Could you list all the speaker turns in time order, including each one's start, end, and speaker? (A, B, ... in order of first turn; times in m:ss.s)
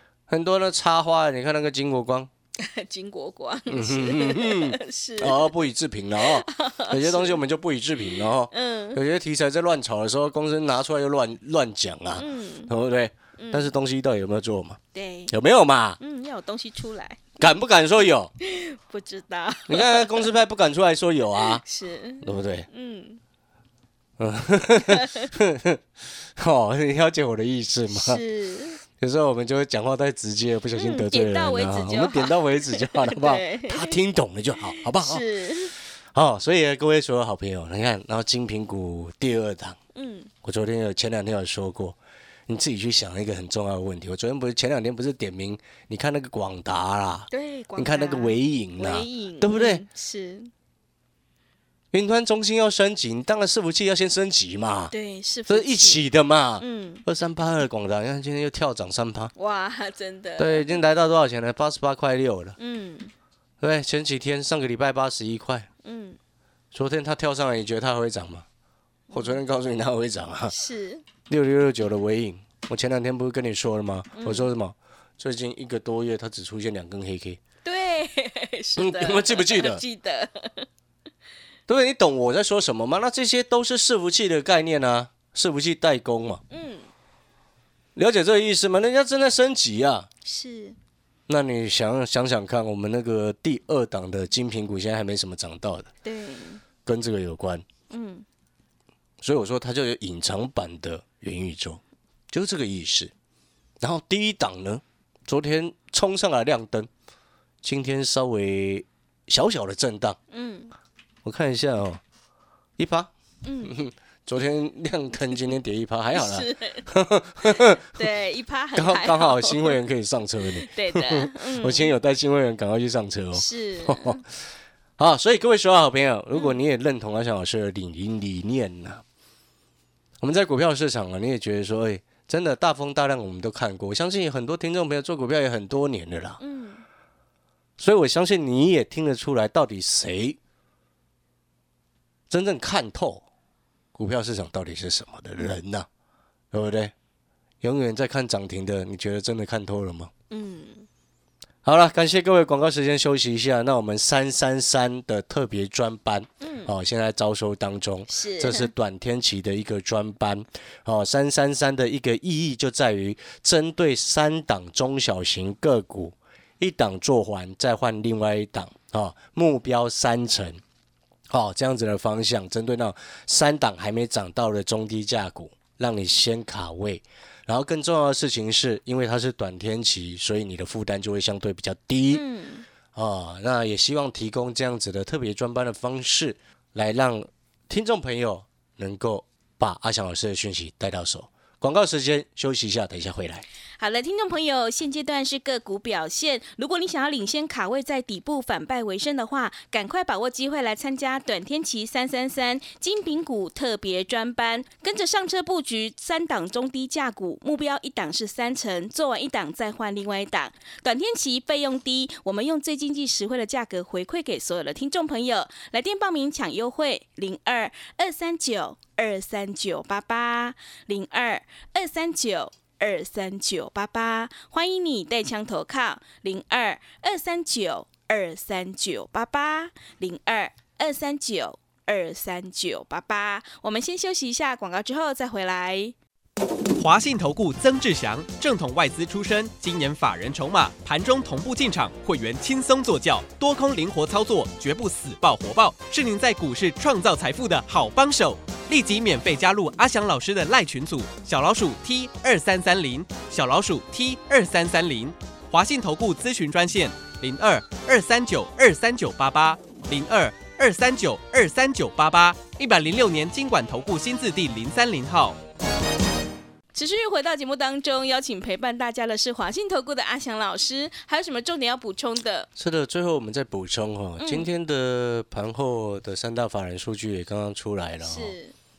0:00.3-0:02.3 A
0:02.6-0:05.6 B
0:03.7-0:16.0 A
0:06.2-0:07.4 B
0:08.0-0:09.0 B
0:12.2-0:12.7 B
0:13.4-0:13.7 B
0:14.9-0:15.3 B
0:16.0-0:17.4 B
0:17.4-0:18.3 A
0:18.4-0:20.3 B
0:19.7-0:21.6 A
0:21.4-0:23.2 B
0:22.2-0:22.7 A
0:24.2-0:25.8 A
0:24.8-0:25.3 B
0:26.4-0:28.2 A
0:27.9-0:28.8 B
0:28.9-0:35.2 A
0:30.7-0:34.0 B
0:34.8-0:35.7 B
0:35.8-0:39.8 A
0:39.9-0:40.3 B
0:40.4-0:49.8 A
0:47.3-0:50.5 B
0:51.9-0:54.9 A
0:54.9-0:56.0 B
0:55.5-0:59.3 A
0:56.6-0:57.0 B
0:59.3-1:00.8 B
1:00.4-1:02.6 A
1:02.6-1:03.1 B
1:03.6-1:05.7 A
1:05.8-1:06.2 B
1:06.7-1:08.4 A
1:09.1-1:09.4 B
1:09.1-1:10.5 A
1:10.5-1:11.0 B
1:11.3-1:17.4 A
1:14.1-1:14.5 B
1:17.6-1:20.7 B
1:18.8-1:19.8 A
1:21.7-1:26.4 A
1:26.5-1:26.9 B
1:28.0-1:30.1 A
1:30.2-1:30.8 B
1:31.3-1:35.9 A
1:36.0-1:36.6 B
1:36.8-1:37.6 A
1:37.9-1:38.2 B
1:39.2-1:43.1 A
1:43.8-1:46.9 A
1:47.6-1:50.2 A
1:50.3-1:50.7 B
1:51.2-1:52.0 A
1:52.8-1:53.1 A
1:53.4-1:53.8 B
1:53.6-1:57.9 A
1:56.1-1:56.9 B
1:57.4-1:59.8 B
1:58.7-2:04.2 A
2:00.5-2:01.9 B
2:03.3-2:04.2 B
2:05.0-2:09.0 A
2:06.3-2:06.6 B
2:10.2-2:16.4 A
2:16.4-2:16.8 B
2:17.8-2:20.4 A
2:22.3-2:23.2 A
2:23.9-2:25.9 A
2:26.5-2:26.9 A
2:27.6-2:30.1 A
2:30.3-2:30.9 B
2:31.6-2:50.6 A
2:36.4-2:36.7 B
2:38.1-2:38.7 B
2:51.3-3:02.2 A
3:02.1-3:02.6 B
3:02.9-3:13.4 A
3:13.8-3:56.0 B
3:56.8-4:25.4 C
4:26.7-4:32.5 B
4:32.6-4:38.3 A
4:34.2-4:34.5 B
4:38.0-4:38.5 B